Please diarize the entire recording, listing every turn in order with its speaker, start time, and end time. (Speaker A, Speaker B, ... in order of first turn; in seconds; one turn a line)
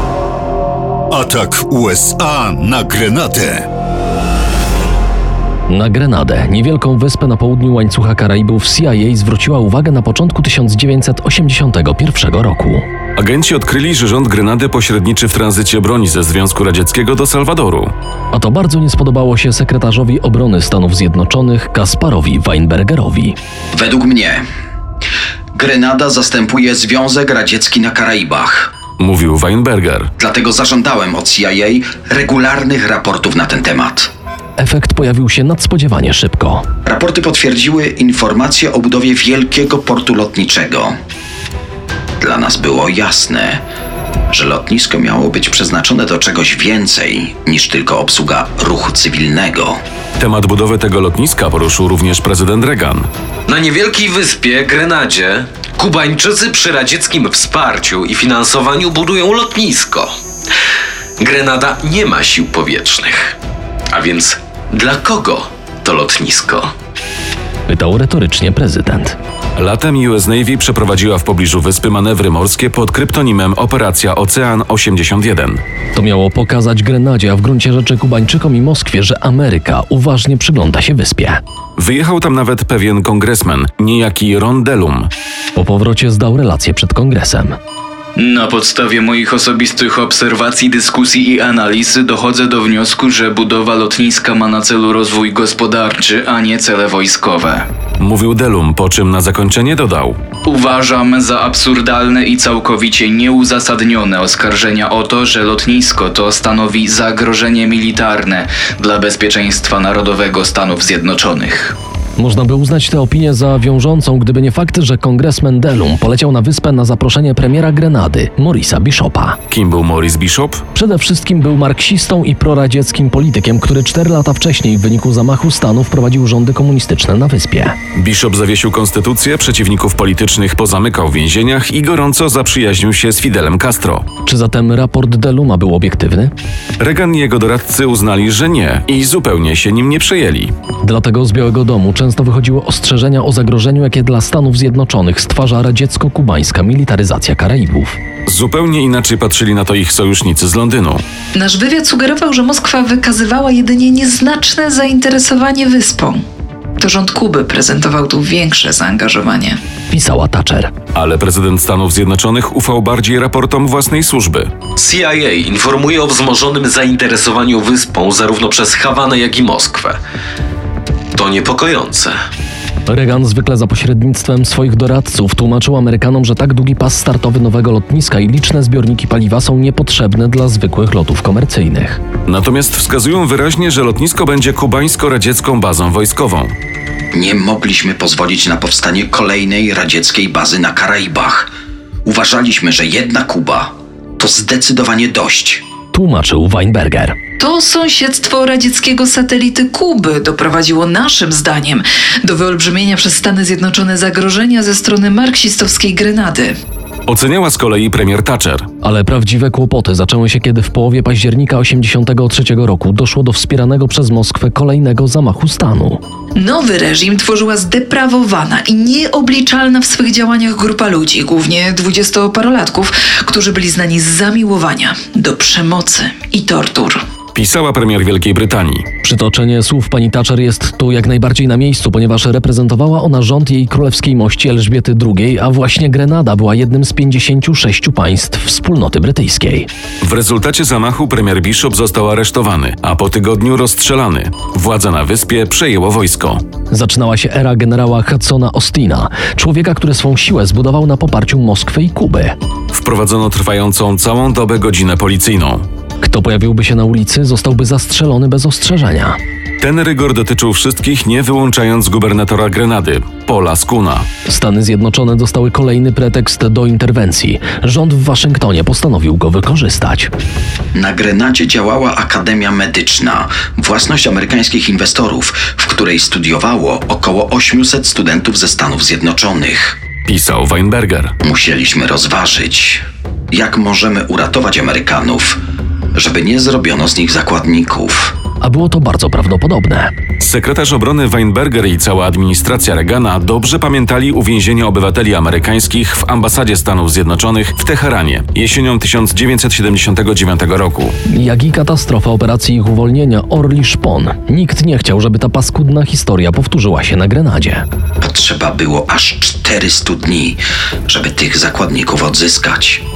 Speaker A: 1.1-3.7
Speaker B: 5.7-12.8
Speaker C: 13.2-17.9
Speaker B: 18.3-23.4
Speaker D: 23.7-24.4
Speaker D: 25.5-28.7
Speaker C: 29.0-30.1
Speaker D: 30.2-34.1
Speaker B: 34.6-36.6
Speaker D: 36.8-40.9
Speaker D: 42.2-43.6
Speaker D: 44.3-49.8
Speaker C: 50.2-53.1
Speaker E: 53.5-60.1
Speaker E: 61.2-63.3
Speaker E: 63.9-66.7
Speaker B: 67.7-69.2
Speaker C: 69.5-75.6
Speaker B: 75.9-81.4
Speaker C: 81.8-85.1
Speaker B: 85.5-87.5
Speaker F: 88.2-97.7
Speaker C: 98.0-100.2
Speaker F: 100.4-111.8
Speaker B: 112.2-119.4
Speaker C: 119.5-120.6
Speaker B: 120.7-127.8
Speaker C: 128.0-134.1
Speaker B: 134.2-136.3
Speaker C: 136.8-140.5
Speaker B: 140.8-148.0
Speaker C: 148.3-151.0
Speaker G: 151.3-156.2
Speaker G: 156.8-159.6
Speaker B: 159.9-160.7
Speaker C: 160.9-164.5
Speaker E: 164.8-170.0
Speaker E: 171.1-172.1
Speaker B: 172.9-182.0
Speaker C: 182.3-186.5
Speaker D: 187.1-191.5
Speaker D: 192.0-195.6
Speaker B: 195.9-197.2
Speaker G: 197.4-206.5
Speaker C: 207.1-208.7
Speaker B: 208.8-216.0
Speaker G: 216.3-227.0
Speaker C: 227.3-228.8
Speaker B: 229.0-239.7
Speaker C: 240.0-246.4
Speaker B: 246.7-252.3
Speaker C: 252.7-255.7
Speaker B: 256.0-259.2
Speaker C: 259.6-264.1
Speaker B: 264.3-270.1
Speaker D: 270.7-279.8
Speaker C: 280.1-281.1
Speaker D: 281.2-285.4
Speaker D: 285.9-288.1
Speaker B: 288.4-289.9
Speaker C: 290.2-300.9
Speaker B: 301.1-307.6
Speaker D: 308.0-312.8